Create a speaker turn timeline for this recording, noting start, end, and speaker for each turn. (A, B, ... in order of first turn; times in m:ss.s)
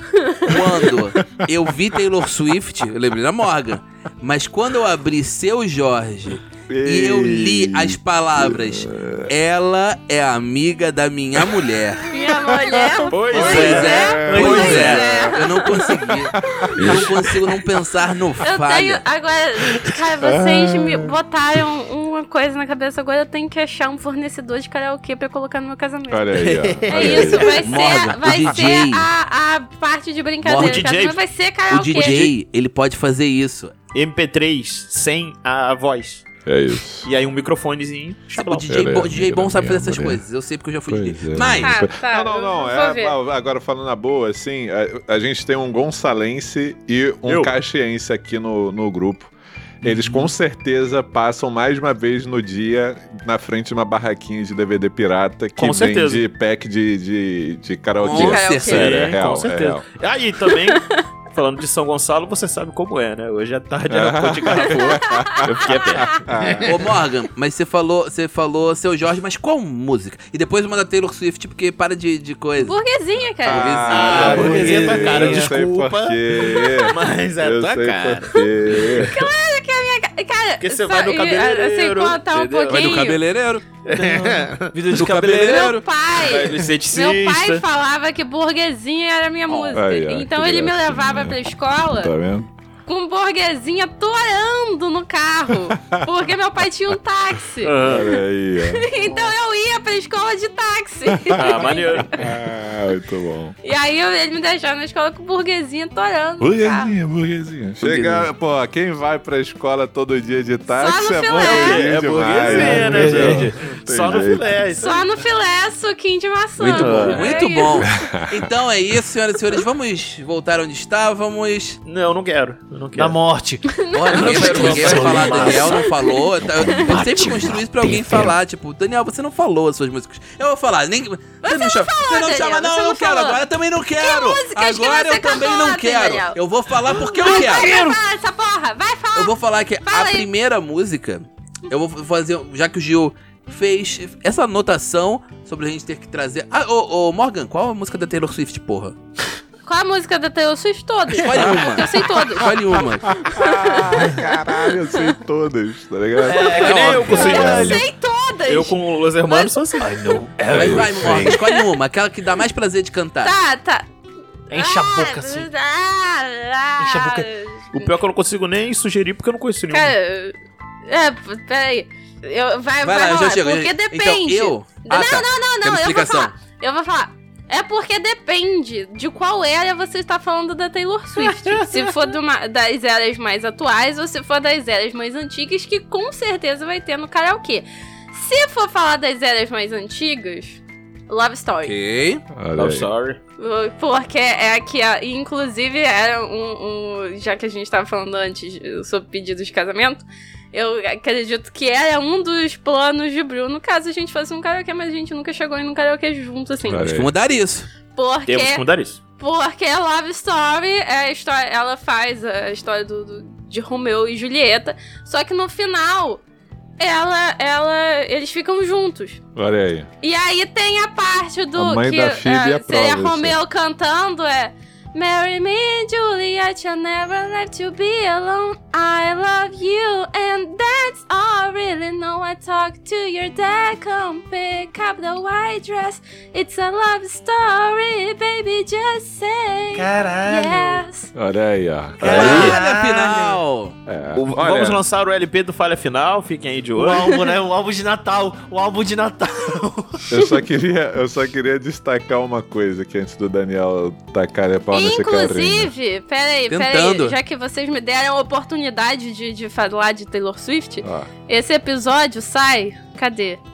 0:00.2-0:00.4 A
0:00.4-0:12.1 B
0:06.7-0:09.3 C
0:12.1-0:16.0 A
0:12.3-0:15.3 C
0:13.1-0:14.9 D
0:13.3-0:19.0 B
0:14.3-0:15.3 E
0:16.3-0:17.4 C
0:18.4-0:32.3 A
0:20.2-0:21.1 C
0:26.1-0:27.6 C
0:26.4-0:27.6 D
0:27.5-0:29.1 B
0:28.3-0:28.6 D
0:30.4-0:30.9 B
0:30.5-0:31.2 D
0:31.7-0:33.7 B
0:33.9-0:36.2 D
0:36.5-0:37.1 C
0:37.0-0:38.9 D
0:38.4-0:41.8 B
0:38.7-0:40.2 C
0:40.9-0:49.3 C
0:41.6-0:43.2 A
0:47.3-0:47.6 D
0:49.8-0:59.9 C
0:49.8-0:50.3 D
0:55.6-0:56.2 D
0:58.0-0:59.1 B
0:58.0-0:58.9 A
0:58.6-1:06.8 D
1:00.5-1:01.0 A
1:03.9-1:06.9 C
1:04.7-1:05.3 A
1:06.6-1:12.8 B
1:12.6-1:14.0 A
1:13.4-1:14.8 B
1:13.4-1:19.1 C
1:13.9-1:19.3 D
1:14.0-1:15.6 E
1:16.4-1:16.9 A
1:19.0-1:23.2 A
1:20.6-1:23.2 D
1:22.7-1:23.6 B
1:23.8-1:27.6 D
1:24.0-1:25.8 E
1:24.9-1:25.8 B
1:25.3-1:32.1 A
1:29.5-1:29.8 B
1:29.7-1:31.4 C
1:31.9-1:32.5 C
1:32.9-1:42.2 A
1:35.7-1:36.1 C
1:37.6-1:38.2 D
1:37.8-1:38.9 C
1:39.0-1:39.3 E
1:41.2-1:41.5 C
1:41.3-1:42.2 D
1:42.1-1:43.6 C
1:43.6-1:46.9 A
1:46.4-1:54.6 C
1:47.8-1:48.2 D
1:50.7-1:51.9 A
1:51.4-1:55.1 D
1:52.4-1:53.5 E
1:54.8-1:58.1 A
1:56.6-2:01.8 B
1:56.7-1:57.3 D
1:57.9-1:58.5 C
2:01.8-2:03.2 D
2:02.9-2:05.9 E
2:03.7-2:07.0 A
2:03.9-2:17.7 B
2:04.2-2:05.6 D
2:06.6-2:08.3 C
2:06.8-2:08.2 E
2:11.4-2:13.4 A
2:14.0-2:19.3 A
2:17.3-2:18.0 D
2:19.2-2:29.0 B
2:19.8-2:20.3 A
2:29.6-2:32.5 A
2:31.1-2:33.2 B
2:33.1-2:35.2 A
2:33.1-2:37.9 C
2:36.3-2:37.9 D
2:36.3-2:37.6 E
2:36.3-2:40.2 A
2:36.6-2:37.1 B
2:38.5-2:40.0 D
2:39.8-2:41.4 E
2:40.5-2:41.3 C
2:40.5-2:43.4 B
2:41.3-2:41.6 A
2:43.2-2:43.9 A
2:44.5-2:45.5 E
2:44.5-2:47.9 A
2:46.8-2:47.3 E
2:47.7-2:49.9 D
2:49.7-3:11.8 A
2:52.8-2:56.3 B
3:01.5-3:01.8 E
3:11.6-3:12.2 B
3:12.3-3:12.9 C
3:12.6-3:13.2 D
3:13.4-3:26.9 A
3:26.6-3:27.1 C
3:26.8-3:27.7 B
3:27.9-3:28.6 A
3:28.3-3:29.0 D
3:29.2-3:36.2 A
3:36.8-3:39.2 A
3:39.4-3:39.9 C
3:40.0-4:01.1 A
3:41.6-3:43.4 C
3:59.8-4:00.8 E
4:01.1-4:02.6 C
4:02.0-4:03.4 E
4:02.0-4:03.8 B
4:02.2-4:02.6 D
4:03.9-4:04.8 C
4:04.2-4:07.1 D
4:06.8-4:10.0 E
4:10.1-4:15.7 C
4:14.7-4:23.4 A
4:16.5-4:17.2 B
4:20.8-4:21.1 C